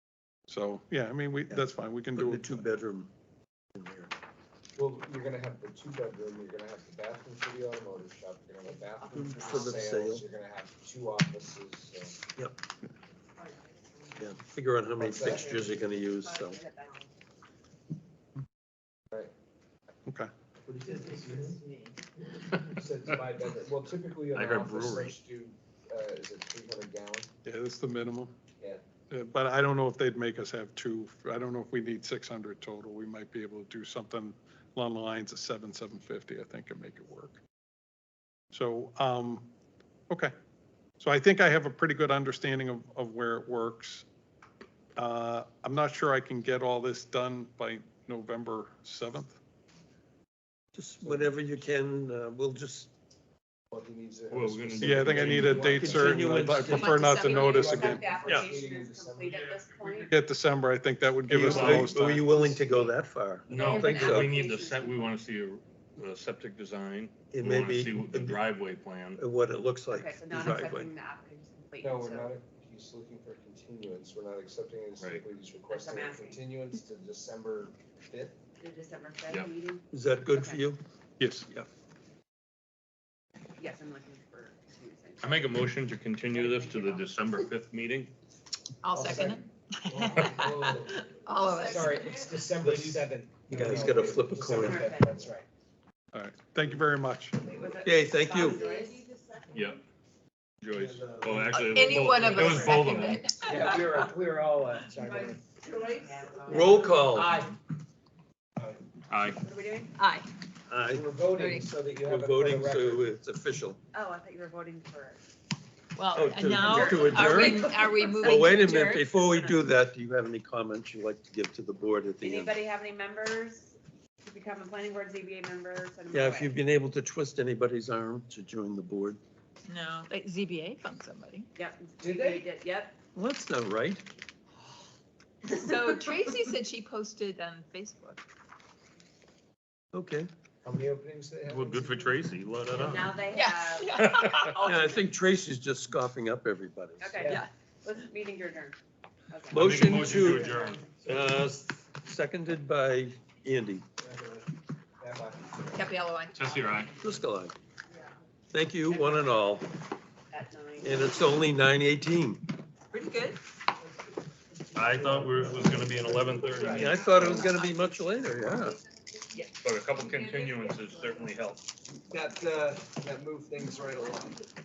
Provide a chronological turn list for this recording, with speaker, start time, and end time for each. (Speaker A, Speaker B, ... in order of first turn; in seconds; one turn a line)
Speaker A: 0.5-2.7
Speaker B: 2.1-3.1
Speaker B: 3.7-4.1
Speaker C: 4.8-12.2
Speaker B: 9.1-10.2
Speaker B: 14.2-16.6
Speaker C: 14.9-15.5
Speaker D: 15.2-17.1
Speaker A: 20.1-20.3
Speaker C: 20.7-21.6
Speaker E: 21.0-21.9
Speaker C: 22.6-27.3
Speaker F: 24.3-25.1
Speaker A: 27.4-28.3
Speaker A: 29.1-37.4
Speaker A: 38.5-39.5
Speaker A: 41.0-44.0
Speaker A: 45.0-49.4
Speaker B: 50.7-52.9
Speaker C: 51.0-51.3
Speaker C: 53.7-56.7
Speaker F: 54.3-56.2
Speaker A: 54.8-58.1
Speaker B: 55.5-57.1
Speaker D: 56.7-60.2
Speaker E: 56.7-57.8
Speaker C: 57.5-59.5
Speaker B: 58.2-58.5
Speaker F: 59.3-60.0
Speaker A: 60.1-62.2
Speaker B: 61.3-64.4
Speaker F: 61.4-61.9
Speaker C: 61.5-62.8
Speaker F: 63.5-69.2
Speaker D: 63.5-65.2
Speaker B: 67.3-68.4
Speaker B: 69.2-70.9
Speaker D: 69.9-72.3
Speaker C: 71.8-78.4
Speaker D: 75.7-76.4
Speaker D: 78.6-80.7
Speaker B: 79.9-80.8
Speaker A: 81.2-81.5
Speaker D: 83.6-85.7
Speaker F: 85.2-88.1
Speaker D: 86.3-87.3
Speaker E: 88.8-92.3
Speaker C: 88.9-95.5
Speaker F: 90.1-90.5
Speaker B: 92.6-94.9
Speaker D: 94.4-95.3
Speaker A: 96.1-97.4
Speaker D: 97.3-99.1
Speaker B: 97.8-98.6
Speaker E: 98.7-99.4
Speaker F: 99.5-99.8
Speaker F: 100.6-103.5
Speaker C: 100.7-102.2
Speaker E: 101.5-104.1
Speaker C: 103.4-105.4
Speaker D: 105.1-107.3
Speaker B: 106.5-107.4
Speaker C: 107.0-107.5
Speaker F: 109.1-109.4
Speaker D: 109.4-110.0
Speaker E: 110.0-110.3
Speaker B: 110.7-111.0
Speaker C: 110.9-113.1
Speaker E: 111.3-111.7
Speaker B: 112.0-113.8
Speaker D: 113.9-115.2
Speaker E: 115.9-119.1
Speaker B: 116.1-122.6
Speaker D: 116.5-119.6
Speaker D: 122.2-126.6
Speaker B: 126.1-129.2
Speaker E: 129.6-131.5
Speaker D: 131.5-133.0
Speaker C: 132.0-132.4
Speaker B: 133.1-134.0
Speaker E: 135.5-138.2
Speaker D: 135.6-136.1
Speaker B: 139.9-140.3
Speaker C: 140.6-142.3
Speaker F: 141.5-143.2
Speaker D: 142.7-145.1
Speaker E: 143.3-144.6
Speaker F: 143.9-144.5
Speaker B: 144.6-147.2
Speaker D: 147.0-148.8
Speaker D: 149.3-150.7
Speaker B: 149.5-150.5
Speaker F: 149.5-150.9
Speaker B: 151.0-153.8
Speaker C: 154.0-154.5
Speaker C: 155.0-155.6
Speaker E: 155.7-156.9
Speaker F: 156.3-156.9
Speaker B: 157.0-157.5
Speaker B: 158.5-159.7
Speaker D: 158.9-159.5
Speaker D: 160.3-161.5
Speaker B: 160.8-162.4
Speaker E: 162.9-163.4
Speaker F: 164.7-167.4
Speaker D: 166.5-166.9
Speaker B: 166.7-168.8
Speaker E: 167.2-168.2
Speaker F: 169.6-171.6
Speaker D: 170.4-170.8
Speaker C: 172.1-174.4